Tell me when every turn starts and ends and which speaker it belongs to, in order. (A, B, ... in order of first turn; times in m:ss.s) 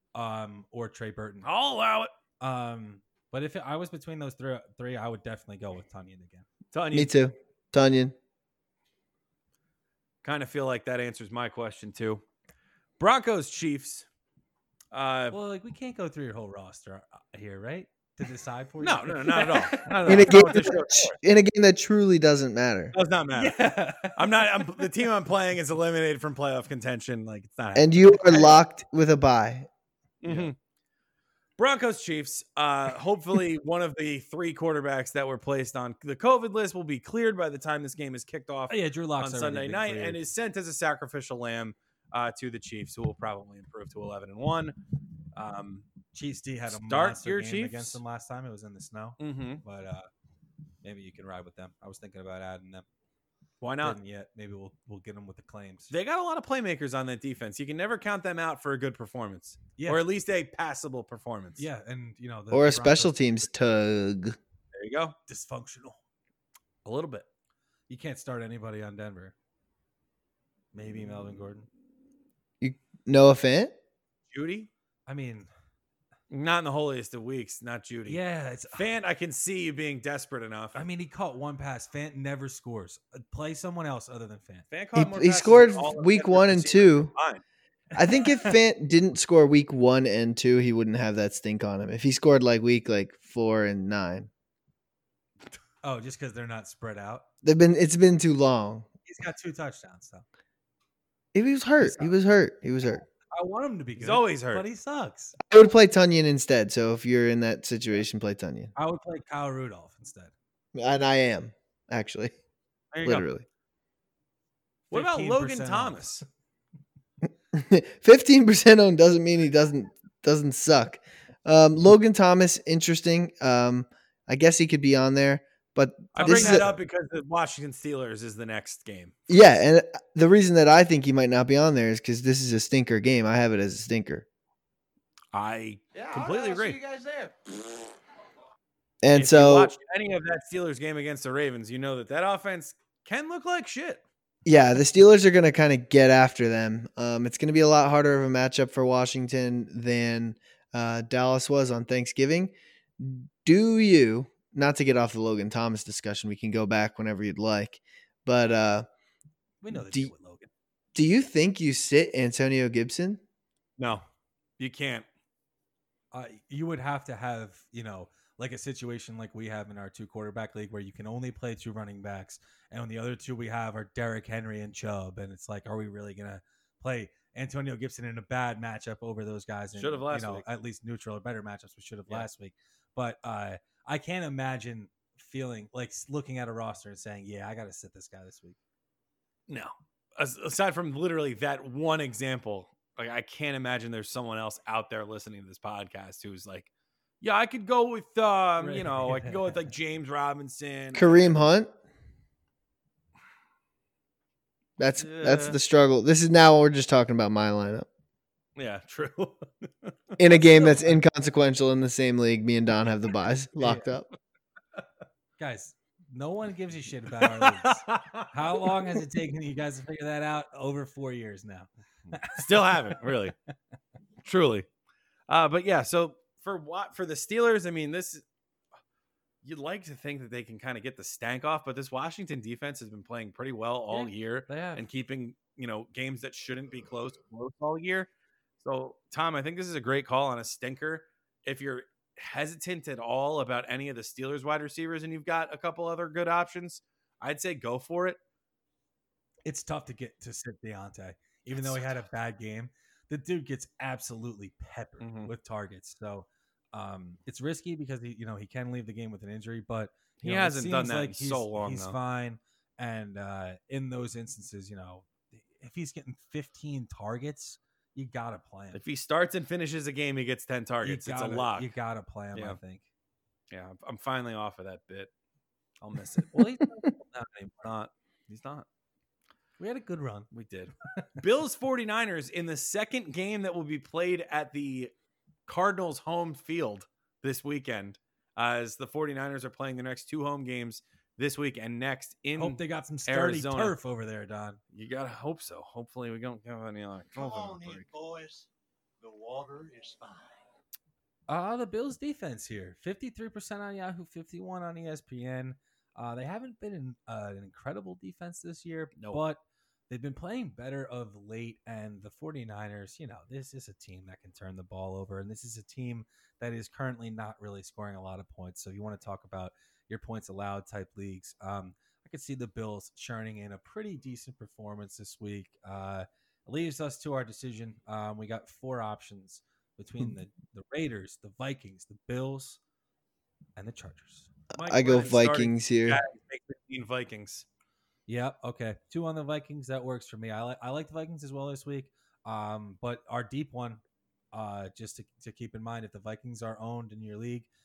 0:00.1-0:01.4 A
0:01.4-0:02.1 B
0:02.4-0:06.5 A
0:06.7-0:07.1 B
0:06.9-0:08.1 C
0:10.2-0:12.2 B
0:13.0-0:14.0 B
0:14.9-0:15.4 B
0:15.3-0:20.2 A
0:18.8-0:21.2 B
0:20.0-0:22.9 C
0:22.9-0:23.6 B
0:23.3-0:24.9 A
0:24.1-0:28.5 B
0:27.7-0:29.7 C
0:30.2-0:30.5 B
0:30.2-0:30.5 A
0:31.6-0:44.8 B
0:38.7-0:40.2 A
0:45.3-0:45.8 B
0:46.1-0:50.1 A
0:46.7-0:48.0 B
0:49.2-0:49.6 B
0:50.8-0:52.8 A
0:53.6-0:54.0 B
0:53.8-0:55.9 A
0:55.9-1:01.7 B
0:59.8-1:00.0 A
1:01.6-1:03.4 A
1:02.5-1:04.4 C
1:04.7-1:05.2 B
1:05.3-1:06.0 A
1:06.8-1:07.2 B
1:07.9-1:09.3 A
1:10.7-1:11.7 A
1:12.6-1:13.7 C
1:14.3-1:14.7 B
1:15.1-1:15.5 A
1:16.3-1:18.2 B
1:18.1-1:18.8 A
1:18.7-1:20.8 B
1:20.7-1:24.6 A
1:24.7-1:27.4 B
1:24.9-1:27.1 C
1:28.0-1:34.3 C
1:28.0-1:28.5 A
1:35.8-1:37.2 A
1:37.4-1:38.9 C
1:39.0-1:40.2 A
1:41.3-1:43.0 C
1:41.8-1:42.1 A
1:43.3-1:45.3 A
1:44.0-1:44.6 B
1:45.4-1:48.7 C
1:48.7-1:50.3 A
1:50.7-1:52.3 C
1:52.9-1:53.3 A
1:53.0-1:53.4 C
1:54.9-1:56.0 A
1:54.9-1:56.2 B
1:57.5-2:06.7 C
2:06.1-2:09.2 B
2:06.2-2:06.7 A
2:09.3-2:14.2 C
2:15.3-2:16.8 B
2:15.9-2:17.8 D
2:19.0-2:19.7 C
2:19.1-2:24.0 B
2:24.4-2:38.8 C
2:39.6-2:40.5 A
2:39.7-2:40.1 C
2:40.9-2:43.2 C
2:43.8-2:44.0 B
2:44.6-2:45.0 B
2:46.1-3:08.6 A
2:59.7-3:00.4 B
3:09.5-3:16.7 B
3:17.2-3:21.4 B
3:18.6-3:19.7 A
3:20.9-3:21.7 C
3:24.8-3:27.9 C
3:25.0-3:25.6 B
3:28.6-3:30.2 B
3:30.2-3:34.0 C
3:33.6-3:33.9 A
3:35.4-3:43.1 A
3:37.3-3:38.7 B
3:42.2-3:43.3 B
3:44.2-3:44.6 B
3:45.3-3:48.2 B
3:49.4-3:58.1 B
3:53.9-3:54.8 A
3:58.6-4:08.2 B
4:09.4-4:28.8 A
4:15.0-4:15.3 B
4:20.2-4:22.0 B
4:28.7-4:31.7 B
4:30.8-4:32.8 A
4:33.5-4:35.1 B
4:35.8-4:36.4 B
4:36.3-4:37.7 A
4:37.6-4:38.6 B
4:39.6-4:40.3 A
4:40.3-4:44.9 B
4:40.9-4:41.2 A
4:45.5-4:53.8 B
4:52.4-4:54.6 A
4:54.7-4:57.9 B
4:57.1-4:58.5 D
4:59.0-5:00.5 D
5:01.3-5:32.6 A
5:08.9-5:09.2 B
5:33.6-5:34.4 A
5:34.5-5:36.0 C
5:34.5-5:37.4 B
5:38.1-5:43.8 A
5:44.3-5:47.5 A